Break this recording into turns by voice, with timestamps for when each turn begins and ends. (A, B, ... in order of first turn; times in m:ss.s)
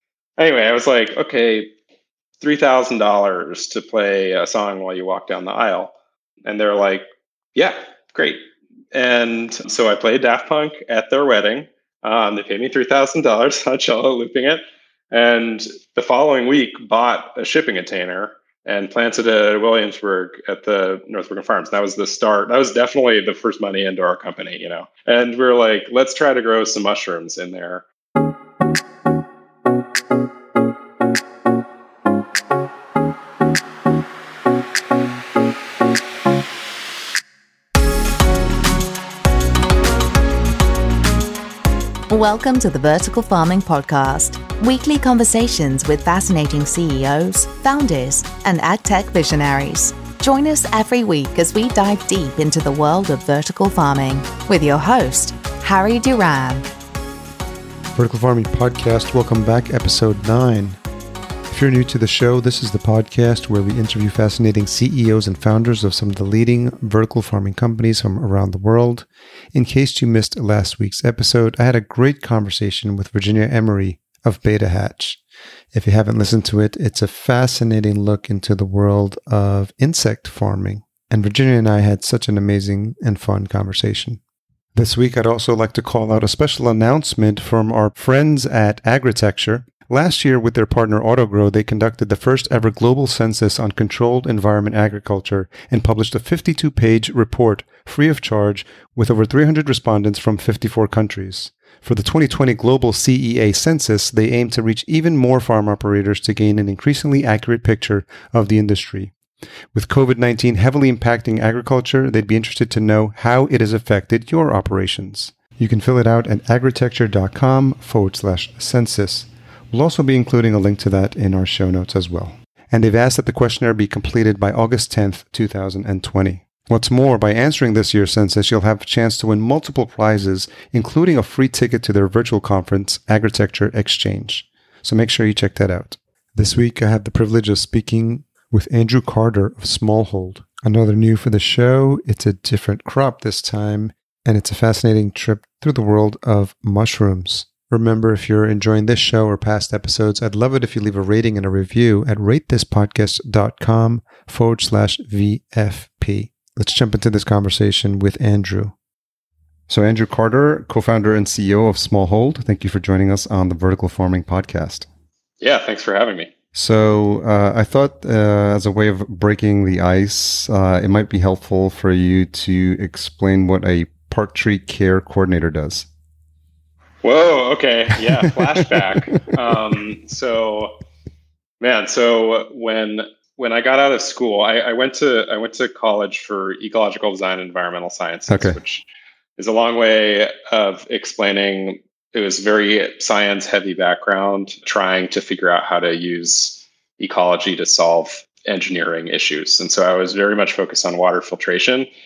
0:00.4-0:01.7 A
0:02.4-0:05.9 A
0:06.4-0:08.4 A
0:08.9-0:27.8 A
0:42.1-0:56.7 B
0:57.9-1:00.8 C
1:01.5-1:15.2 C
1:15.7-1:24.2 C
1:24.7-1:49.1 C
1:49.7-2:38.7 C
2:39.7-2:44.9 C
2:45.4-2:46.3 A
2:46.5-2:55.9 C
2:57.0-3:00.7 A
3:01.6-3:08.8 A
3:08.3-3:08.6 C
3:09.4-3:21.9 A